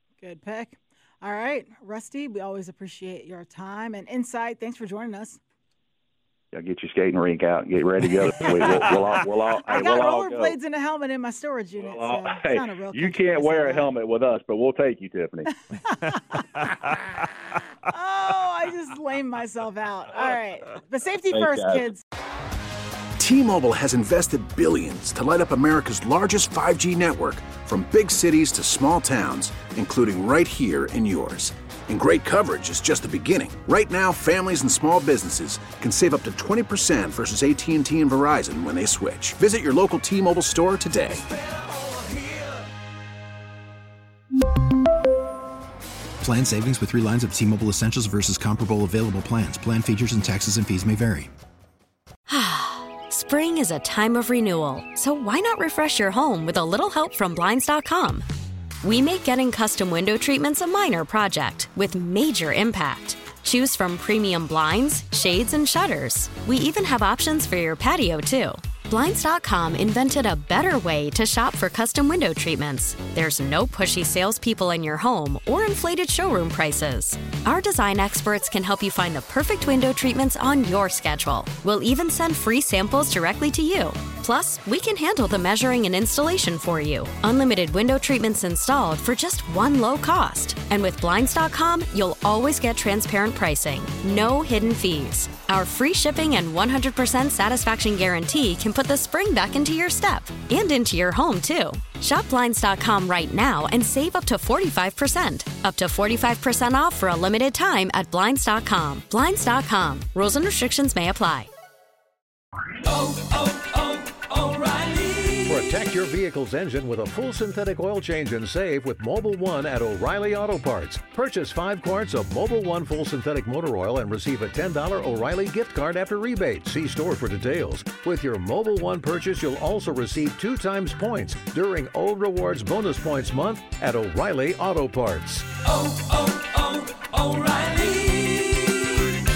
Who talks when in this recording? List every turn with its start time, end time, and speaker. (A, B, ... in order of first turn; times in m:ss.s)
0:00.2-0:05.4 A
0:06.5-0:10.6 B
0:08.5-0:08.8 C
0:09.7-0:13.9 A
0:11.8-0:15.5 B
0:16.1-0:17.0 C
0:17.9-0:22.0 A
0:21.3-0:21.9 B
0:23.2-0:41.3 D
0:46.2-0:51.3 E
0:52.3-0:58.2 F
0:58.8-1:51.5 F
1:52.9-1:55.7 C
1:55.4-2:15.4 G
2:15.7-2:18.6 C